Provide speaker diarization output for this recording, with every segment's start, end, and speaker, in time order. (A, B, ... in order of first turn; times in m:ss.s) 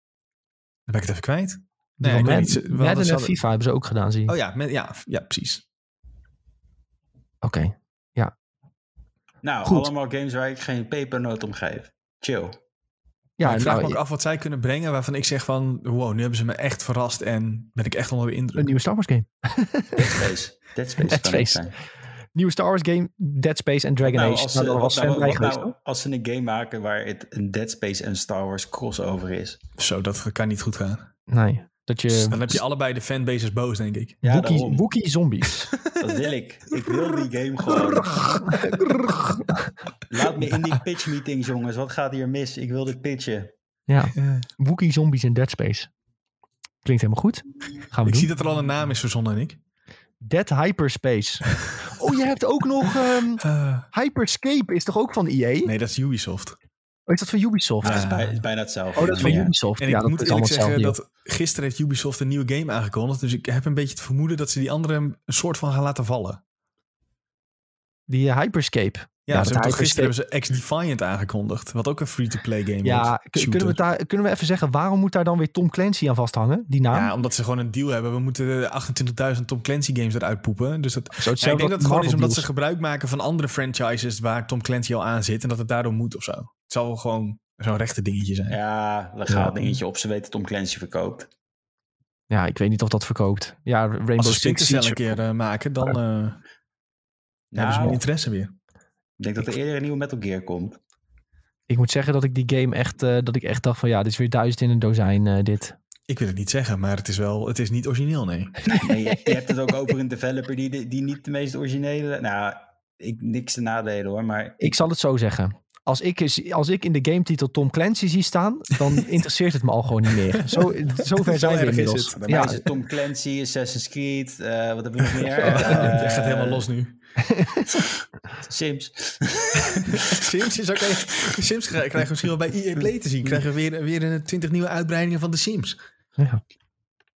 0:00.9-0:03.3 A
0:02.0-0:04.3 B
0:04.3-0:05.6 A
0:07.4-0:08.3 B
0:09.4-0:12.5 C
0:13.4-0:14.0 B
0:13.4-0:18.7 A
0:18.6-0:20.2 B
0:20.0-0:21.8 C
0:21.0-0:21.6 B
0:22.3-0:25.7 B
0:24.0-0:29.6 C
0:29.8-0:31.1 A
0:31.3-0:32.6 B
0:32.1-0:34.2 A
0:34.2-0:35.7 B
0:34.2-0:34.9 C
0:35.8-0:36.2 A
0:36.0-0:38.5 C
0:38.0-0:39.4 A
0:38.0-0:39.7 B
0:40.1-0:43.5 C
0:43.9-0:45.9 B
0:44.2-0:44.5 A
0:46.8-0:48.3 B
0:48.0-0:49.6 A
0:50.2-0:55.7 B
0:52.8-0:53.9 A
0:55.6-0:56.6 A
0:57.1-0:58.0 B
0:57.8-0:58.4 A
0:57.8-0:59.5 C
0:59.0-1:01.0 B
0:59.0-1:06.4 A
1:08.1-1:10.1 B
1:09.3-1:13.8 A
1:12.8-1:17.1 B
1:16.9-1:28.6 A
1:21.2-1:22.4 B
1:28.5-1:31.3 C
1:29.3-1:29.7 B
1:32.3-1:35.2 B
1:34.2-1:36.4 A
1:37.5-1:38.0 C
1:37.6-1:38.5 A
1:37.6-1:38.0 B
1:39.2-1:40.8 C
1:41.7-1:45.8 B
1:46.1-1:48.6 A
1:48.6-1:49.5 B
1:48.7-1:54.7 C
1:54.6-2:02.6 B
2:00.1-2:02.2 A
2:02.2-2:06.7 C
2:05.0-2:07.0 A
2:05.4-2:05.8 B
2:07.2-2:07.7 B
2:07.7-2:10.3 C
2:09.8-2:15.8 A